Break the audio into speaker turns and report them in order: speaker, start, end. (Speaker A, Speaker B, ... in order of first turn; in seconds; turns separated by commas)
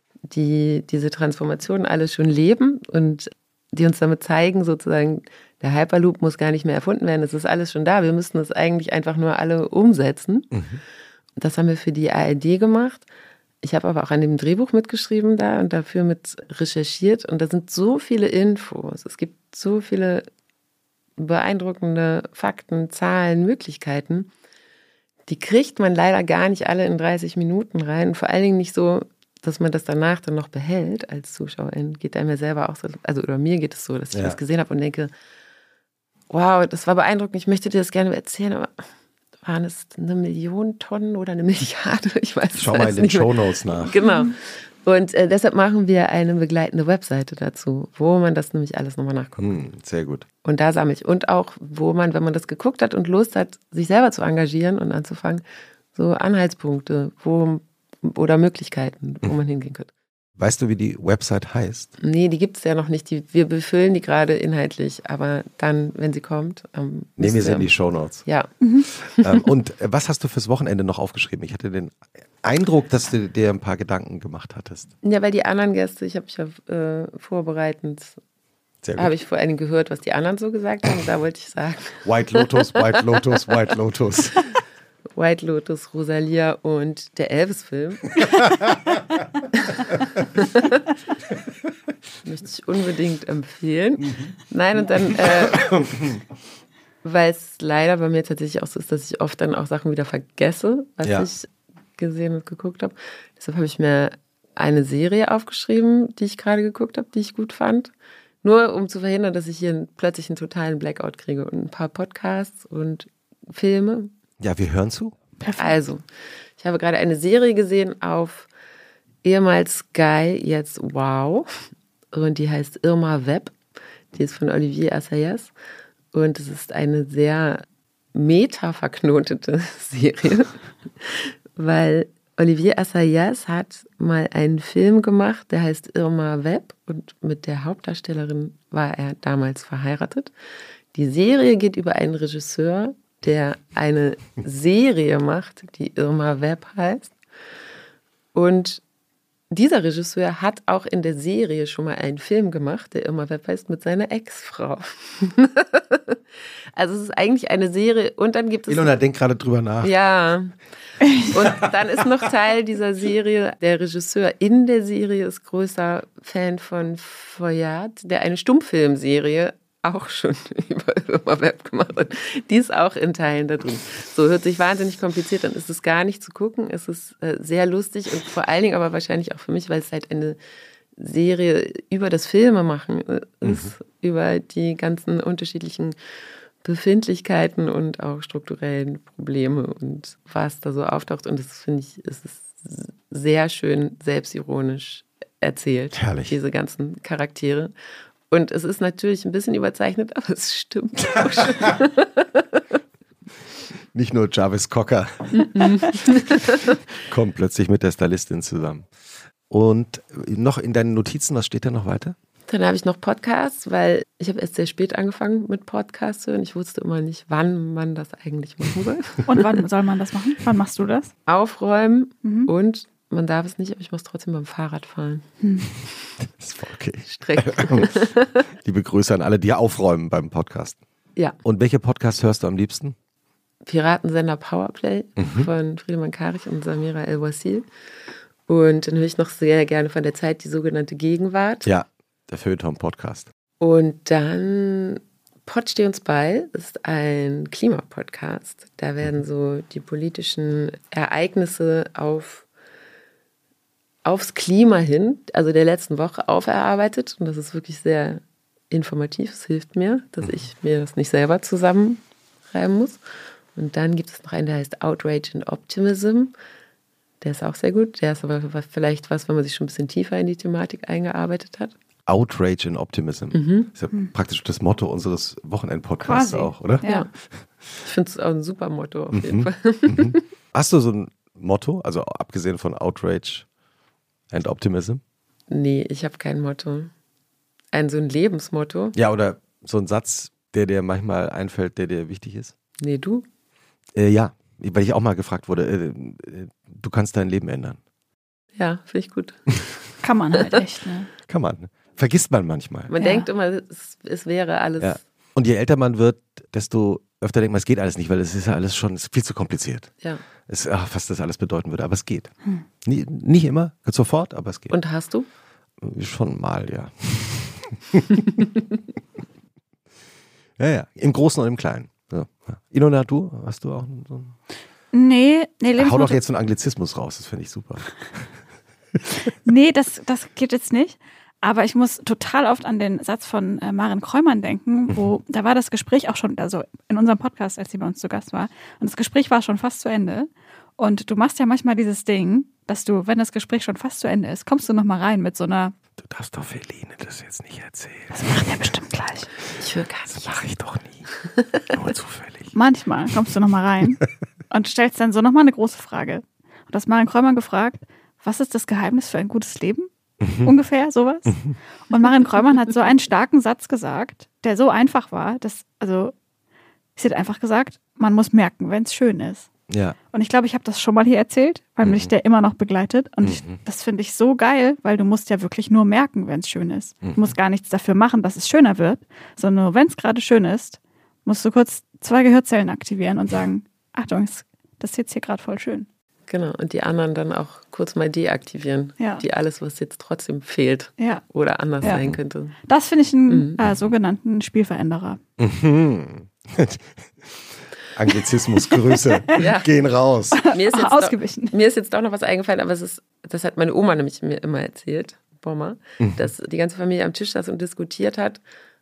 Speaker A: 0.3-10.6, Speaker B: 10.5-10.8, Speaker A: 11.4-13.1, Speaker A: 13.6-20.3, Speaker A: 21.2-24.3, Speaker A: 25.3-35.1, Speaker B: 34.1-34.4, Speaker A: 36.3-38.9, Speaker A: 39.4-49.6, Speaker B: 42.5-44.0, Speaker C: 44.0-44.3, Speaker B: 49.4-50.3, Speaker A: 50.4-55.4, Speaker A: 55.9-59.9, Speaker B: 60.4-61.9, Speaker A: 62.0-68.5, Speaker B: 67.2-68.3, Speaker C: 68.6-68.9, Speaker A: 69.0-69.3, Speaker B: 69.2-74.9, Speaker A: 75.0-78.2, Speaker B: 78.8-79.1, Speaker A: 79.0-82.1, Speaker B: 82.0-84.4, Speaker A: 85.2-88.3, Speaker A: 90.3-90.8, Speaker A: 92.2-95.8, Speaker B: 95.4-96.2, Speaker A: 97.0-107.9, Speaker A: 108.4-114.1, Speaker B: 114.4-115.2, Speaker C: 115.4-115.8, Speaker A: 115.4-116.0, Speaker A: 116.6-118.5, Speaker A: 119.2-121.5, Speaker A: 122.1-123.5, Speaker A: 124.1-125.5, Speaker A: 126.1-127.6, Speaker A: 128.1-140.3, Speaker A: 140.9-147.2, Speaker A: 148.3-148.8, Speaker A: 149.5-156.2, Speaker A: 156.8-158.9, Speaker B: 158.7-159.9, Speaker A: 159.8-160.6, Speaker C: 161.0-161.3, Speaker A: 161.2-180.4, Speaker A: 181.0-186.0, Speaker B: 183.4-183.7, Speaker A: 186.6-197.7, Speaker B: 196.0-196.3, Speaker A: 198.3-202.6, Speaker B: 203.9-205.5, Speaker A: 205.3-206.8, Speaker B: 207.0-208.9, Speaker B: 209.5-212.2, Speaker A: 212.5-219.3, Speaker C: 219.3-221.1, Speaker A: 221.3-225.3, Speaker C: 222.2-222.5, Speaker C: 225.4-225.7, Speaker B: 226.4-228.1, Speaker A: 227.1-228.4, Speaker B: 228.6-230.8, Speaker B: 231.4-233.0, Speaker A: 233.7-237.7, Speaker B: 235.2-235.5, Speaker A: 238.5-241.7, Speaker B: 241.6-243.3, Speaker A: 243.6-252.5, Speaker A: 254.1-263.0, Speaker A: 263.6-266.3, Speaker A: 267.2-271.8, Speaker B: 272.1-277.4, Speaker A: 273.3-273.7, Speaker C: 276.0-277.1, Speaker A: 276.8-277.1, Speaker A: 277.8-280.2, Speaker B: 279.1-283.5, Speaker B: 284.3-285.0, Speaker A: 285.5-286.9, Speaker A: 287.7-289.0, Speaker B: 288.9-292.5, Speaker A: 292.8-293.2, Speaker B: 293.9-297.8, Speaker A: 298.6-299.8, Speaker C: 300.0-301.1, Speaker B: 301.3-302.9, Speaker A: 302.9-305.0, Speaker C: 303.0-303.3, Speaker B: 304.8-309.9, Speaker B: 310.5-314.8, Speaker A: 314.7-315.3, Speaker B: 315.8-318.4, Speaker B: 320.6-324.4, Speaker C: 324.9-326.2, Speaker B: 325.8-328.3, Speaker C: 329.3-345.7, Speaker B: 346.0-348.2, Speaker C: 348.1-349.3, Speaker A: 349.6-350.4, Speaker B: 350.1-351.1, Speaker A: 351.1-351.6, Speaker B: 351.7-352.5, Speaker C: 352.5-366.1, Speaker B: 360.2-360.5, Speaker B: 361.3-361.5, Speaker C: 367.0-369.5, Speaker B: 369.7-370.0, Speaker C: 370.1-385.9, Speaker B: 371.8-372.1, Speaker B: 373.2-373.6, Speaker B: 377.0-377.3, Speaker A: 386.3-392.6, Speaker C: 391.0-391.2, Speaker B: 391.9-392.2, Speaker C: 392.6-395.2, Speaker A: 393.3-393.6, Speaker B: 395.4-400.4, Speaker C: 399.1-399.4, Speaker A: 399.4-399.7, Speaker C: 400.3-401.5, Speaker A: 400.5-408.4